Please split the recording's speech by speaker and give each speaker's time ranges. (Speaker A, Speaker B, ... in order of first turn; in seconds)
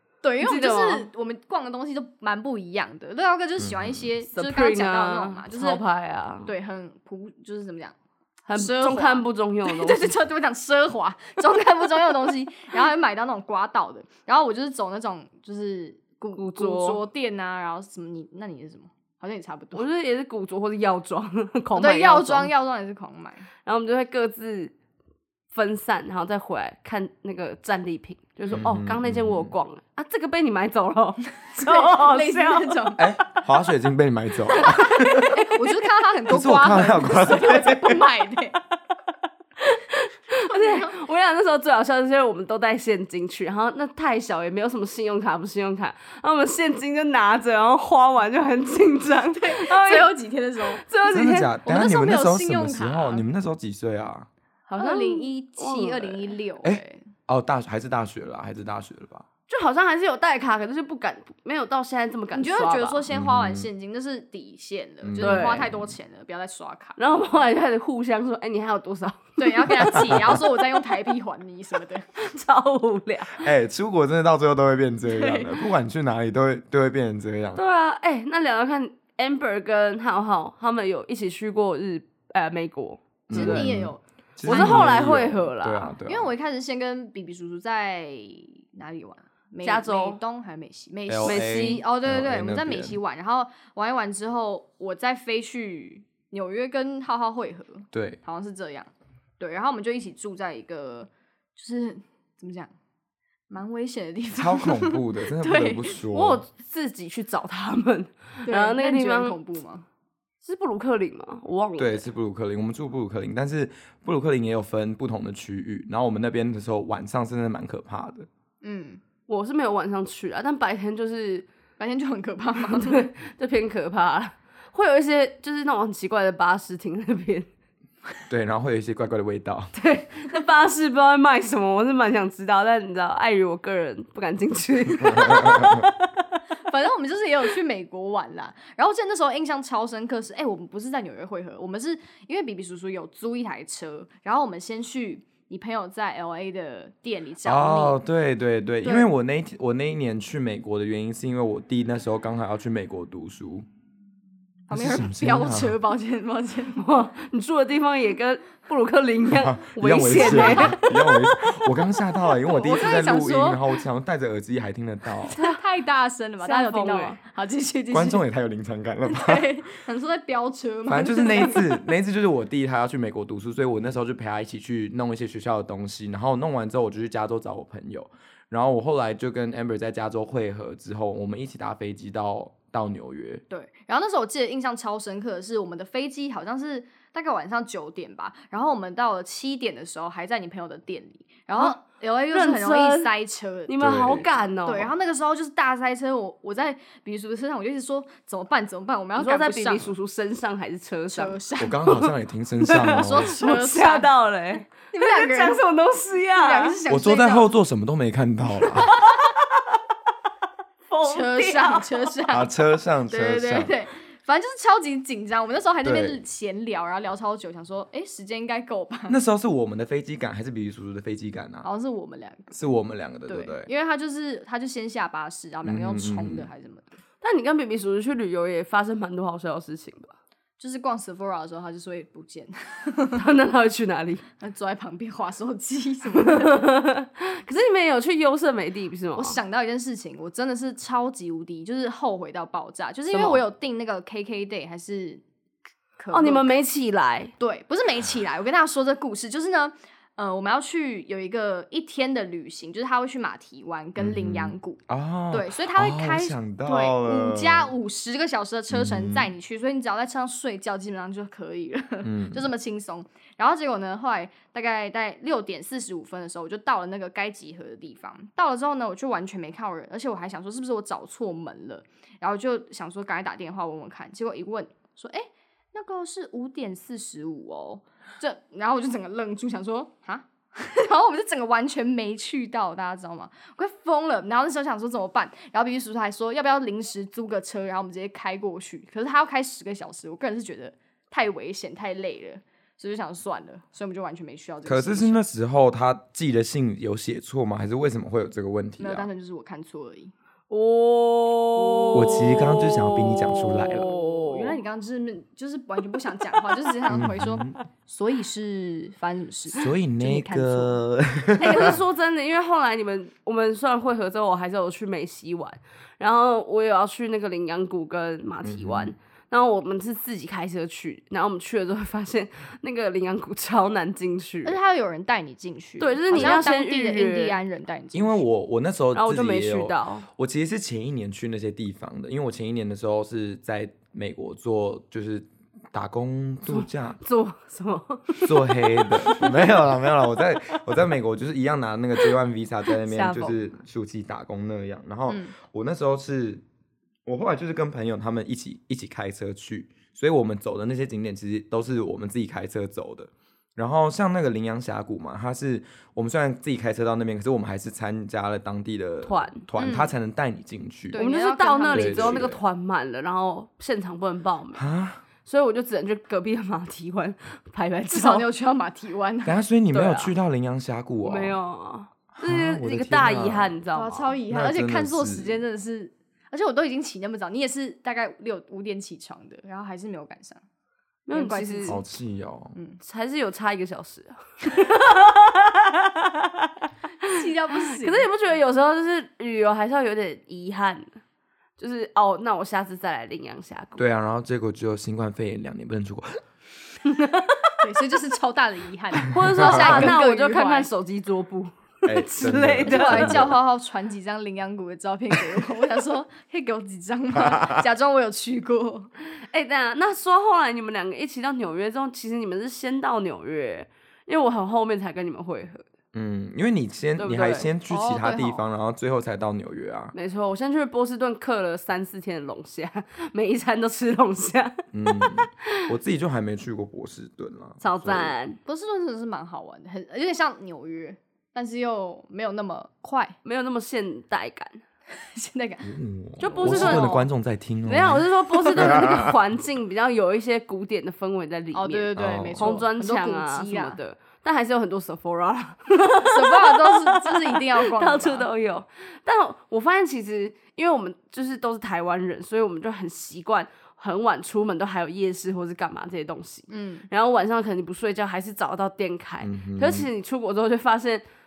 Speaker A: 0.2-5.8, 6.4-7.9, 8.5-19.8, 21.7-23.4, 31.4-33.0, 34.5-38.6, 40.4-41.0, 49.3-50.8, 51.6-53.2, 54.7-57.0, 62.3-67.0, 69.4-72.1, 75.1-75.5, 83.3-85.1, 86.0-98.9, 99.4-102.7, 103.5-106.0, 108.4-109.8, 118.6-119.0, 121.8-123.0, 135.2-135.6, 136.7-148.0, 148.8-149.1, 154.7-156.8, 160.0-161.2, 162.4-163.6, 165.3-168.2, 169.0-171.8, 183.5-199.9, 201.1-201.8, 202.9-204.1, 204.7-205.6, 206.3-207.5, 211.0-212.5, 213.1-219.2, 221.6-222.5, 223.3-226.9, 230.6-233.2, 234.4-236.7, 239.2-245.2, 246.0-246.5, 247.4-254.8, 255.3-295.2, 298.8-300.1, 301.5-302.4, 303.6-310.8, 324.4-328.2, 345.1-345.3, 359.5-359.9, 360.9-362.3, 367.9-369.4, 373.7-380.4, 381.1-381.8, 382.5-382.8, 387.0-388.1, 397.6-400.7, 402.6-408.9, 417.7-418.4, 428.4-433.1, 435.0-437.0, 441.5-443.8, 446.0-448.3, 456.5-456.9
Speaker B: 0.4-1.1, 4.3-6.5, 8.5-10.2, 16.4-17.0, 19.7-22.5, 23.6-24.7, 25.5-33.0, 34.5-35.6, 39.6-50.1, 50.8-51.5, 54.8-56.4, 59.5-63.0, 65.2-65.7, 67.0-70.3, 72.2-73.5, 77.5-83.7, 84.5-85.9, 89.6-90.2, 91.2-91.8, 106.1-109.4, 110.4-112.0, 119.3-121.5, 122.7-127.5, 129.8-136.1, 156.8-160.8, 165.3-165.6, 166.4-167.2, 192.3-193.1, 193.7-194.9, 199.2-206.8, 209.0-209.3, 210.9-212.1, 227.2-230.1, 233.2-234.2, 236.2-239.4, 243.1-243.4, 246.1-247.3, 300.5-304.6, 311.4-324.6, 325.8-327.4, 328.9-330.1, 336.5-340.6, 342.7-343.5, 359.0-359.4, 361.0-364.6, 365.2-368.3, 369.7-370.1, 371.0-374.1, 381.1-381.8, 382.8-386.5, 387.5-391.0, 391.6-393.8, 396.8-397.5, 399.1-403.2, 409.3-415.6, 417.0-417.5, 419.9-425.3, 427.6-428.4, 433.2-434.6, 436.2-437.1, 437.6-461.0
Speaker C: 3.6-4.0, 28.5-29.5, 33.0-35.4, 36.3-38.0, 51.1-54.3, 56.6-59.2, 63.1-63.7, 65.0-65.9, 70.1-70.4, 73.4-77.6, 83.3-86.3, 91.1-93.0, 97.9-98.2, 104.4-106.4, 111.8-118.3, 128.3-129.7, 135.3-135.8, 147.4-153.7, 154.7-155.8, 159.3-165.3, 167.9-169.5, 170.8-183.4, 193.8-194.3, 201.6-203.3, 206.9-208.9, 212.3-213.7, 215.8-216.2, 219.1-221.7, 222.5-223.7, 225.6-226.5, 254.0-257.7, 258.7-259.3, 262.0-262.5, 294.6-299.1, 301.9-303.9, 306.9-307.6, 309.5-311.8, 318.4-318.9, 326.1-326.4, 327.9-337.0, 338.2-346.4, 347.1-361.0, 361.7-362.4, 364.5-365.0, 369.2-371.4, 372.1-373.5, 374.3-375.4, 381.7-382.6, 393.8-396.2, 399.3-399.9, 401.8-403.4, 415.9-419.9, 424.7-428.1, 435.6-439.1, 441.9-442.6, 459.2-459.9